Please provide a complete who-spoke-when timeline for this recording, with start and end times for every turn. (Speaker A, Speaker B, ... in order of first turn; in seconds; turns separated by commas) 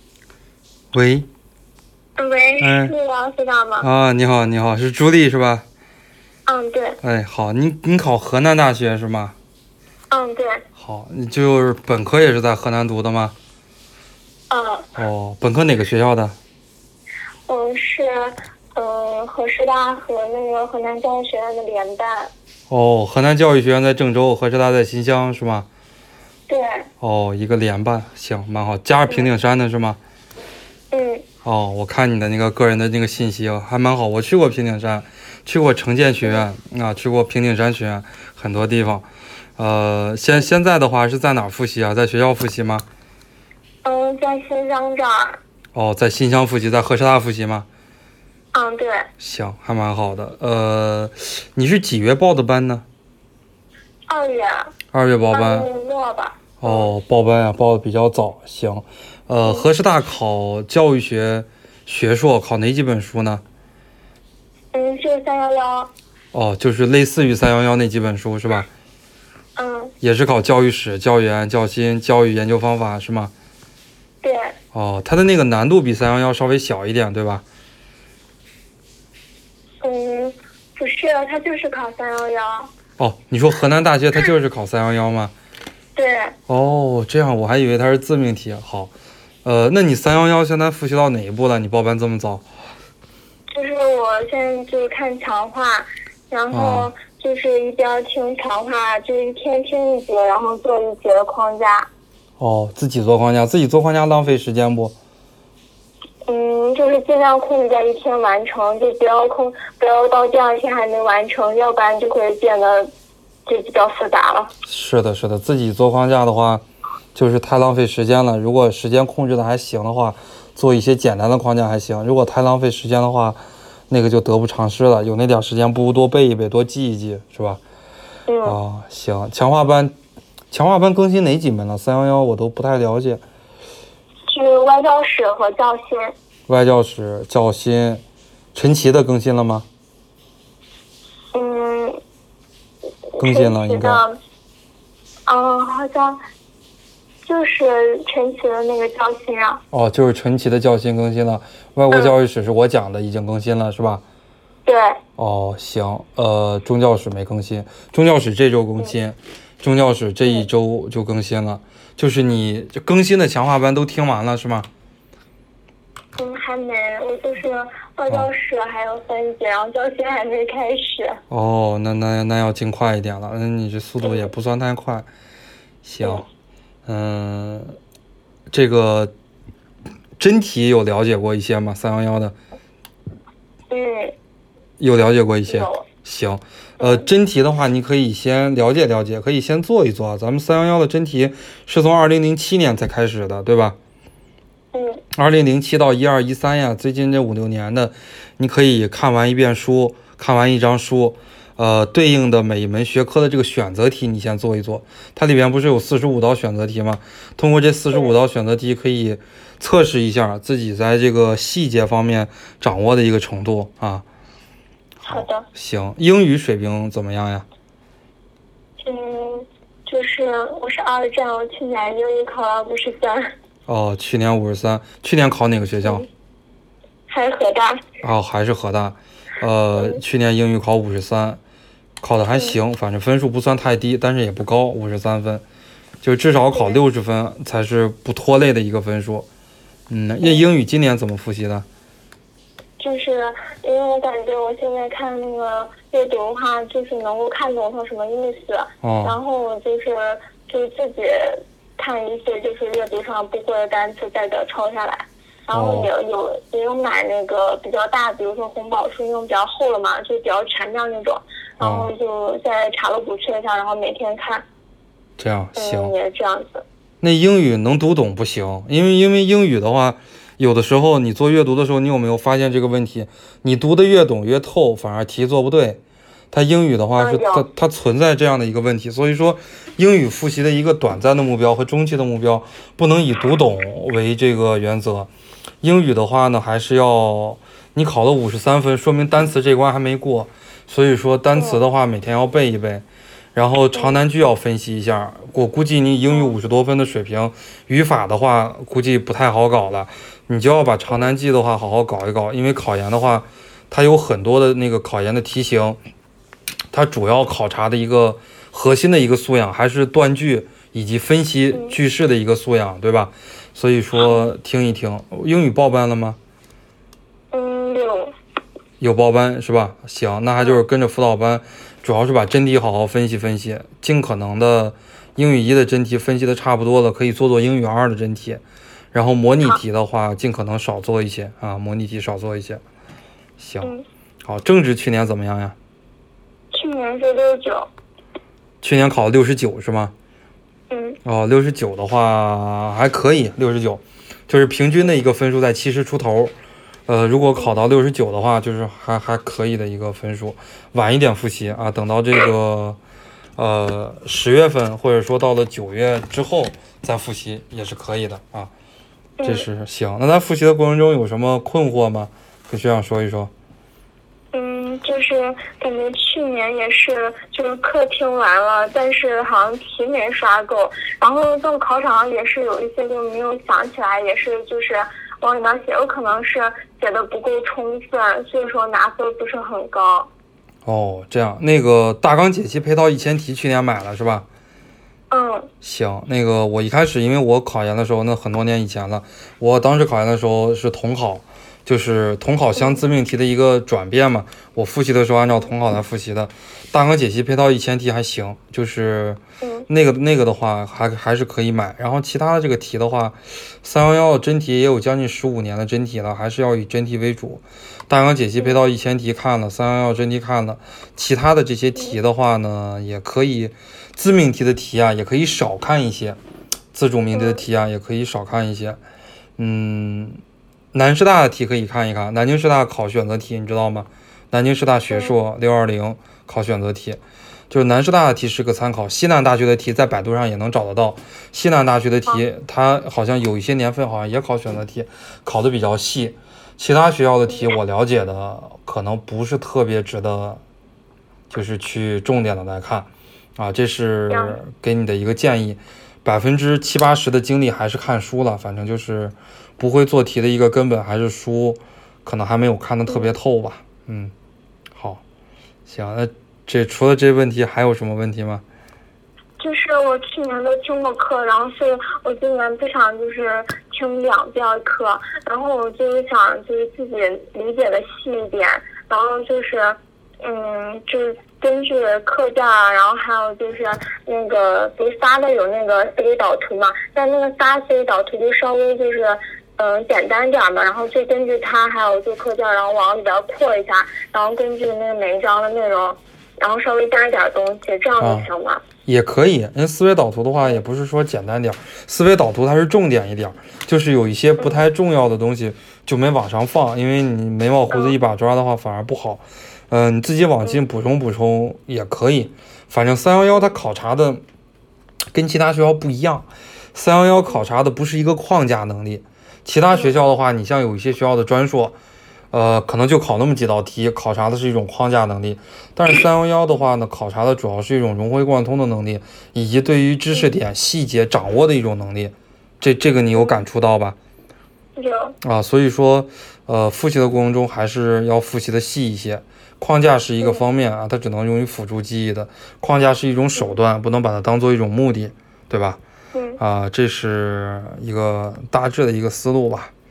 Speaker A: 0.9-1.3, Speaker B: 2.2-3.9, Speaker A: 2.6-2.9, Speaker A: 3.8-5.7, Speaker B: 6.5-7.0, Speaker A: 7.0-9.3, Speaker B: 10.1-10.7, Speaker A: 10.8-13.3, Speaker B: 14.5-14.9, Speaker A: 15.0-16.4, Speaker B: 17.5-22.3, Speaker A: 22.7-25.7, Speaker B: 26.5-26.9, Speaker A: 27.0-30.0, Speaker B: 30.9-31.2, Speaker A: 31.4-42.9, Speaker B: 43.8-45.4, Speaker A: 45.7-47.7, Speaker B: 48.5-49.1, Speaker A: 49.2-52.9, Speaker B: 54.1-54.7, Speaker A: 54.9-55.7, Speaker B: 55.3-56.9, Speaker A: 56.6-63.4, Speaker B: 64.7-65.9, Speaker A: 66.3-68.7, Speaker B: 69.6-69.9, Speaker A: 70.0-73.3, Speaker B: 74.2-74.5, Speaker A: 74.7-77.4, Speaker B: 79.8-82.7, Speaker A: 83.0-85.3, Speaker B: 86.0-86.4, Speaker A: 86.5-88.9, Speaker A: 89.5-92.4, Speaker B: 93.5-101.9, Speaker A: 96.5-96.9, Speaker A: 102.4-105.0, Speaker B: 106.3-112.9, Speaker B: 113.5-114.5, Speaker A: 114.7-116.6, Speaker A: 117.2-127.6, Speaker B: 128.3-128.6, Speaker A: 128.4-129.9, Speaker A: 130.5-133.2, Speaker B: 134.3-136.1, Speaker A: 136.5-138.0, Speaker A: 138.6-139.7, Speaker B: 141.3-142.0, Speaker B: 143.2-144.2, Speaker A: 143.2-144.1, Speaker B: 145.3-146.2, Speaker B: 147.2-149.6, Speaker A: 149.7-154.0, Speaker B: 154.7-155.0, Speaker A: 155.2-164.7, Speaker B: 166.2-171.2, Speaker A: 171.3-175.1, Speaker B: 174.0-174.3, Speaker A: 175.8-176.3, Speaker A: 176.9-177.8, Speaker A: 178.5-179.1, Speaker A: 180.2-182.3, Speaker B: 183.7-184.2, Speaker A: 184.8-193.8, Speaker B: 185.5-185.9, Speaker B: 186.8-187.1, Speaker B: 194.7-195.0, Speaker A: 195.1-214.1, Speaker A: 215.0-217.5, Speaker B: 215.1-215.5, Speaker B: 218.8-223.3, Speaker A: 223.7-226.1, Speaker B: 225.8-226.1, Speaker B: 227.1-227.8, Speaker A: 228.0-231.4, Speaker A: 232.0-235.4, Speaker B: 232.3-232.6, Speaker A: 236.0-239.3, Speaker B: 236.5-236.8, Speaker A: 239.9-241.7, Speaker B: 242.8-264.4, Speaker A: 248.8-249.2, Speaker A: 255.5-255.9, Speaker A: 261.6-261.9, Speaker A: 265.2-265.9, Speaker B: 265.6-266.7, Speaker A: 267.0-275.8, Speaker A: 276.3-285.1, Speaker B: 277.0-277.5, Speaker A: 285.6-305.8, Speaker B: 291.3-291.6, Speaker B: 293.7-294.0, Speaker A: 306.7-316.2, Speaker B: 317.3-318.1, Speaker A: 318.8-332.6, Speaker A: 333.4-333.7, Speaker A: 334.2-335.6, Speaker B: 336.5-337.7, Speaker A: 338.6-339.9, Speaker B: 340.7-341.0, Speaker A: 341.1-346.3, Speaker A: 346.9-352.8, Speaker A: 353.4-358.5, Speaker B: 359.2-359.5, Speaker A: 359.2-363.3, Speaker B: 364.3-380.1, Speaker A: 380.7-384.3, Speaker B: 385.1-385.5, Speaker A: 385.6-416.2, Speaker B: 399.4-399.7, Speaker A: 416.7-418.8, Speaker B: 417.1-417.4, Speaker A: 419.4-420.2, Speaker A: 420.7-440.4, Speaker B: 424.9-425.2, Speaker A: 441.3-454.1, Speaker B: 444.1-444.4, Speaker A: 454.8-455.0, Speaker A: 455.7-458.4, Speaker B: 459.4-488.6, Speaker A: 488.0-488.3, Speaker A: 488.9-504.2, Speaker B: 497.7-497.9, Speaker A: 505.1-511.8, Speaker A: 512.3-524.0, Speaker B: 523.1-523.4, Speaker B: 524.8-525.2, Speaker A: 525.2-535.8, Speaker B: 536.1-536.4, Speaker A: 536.4-539.7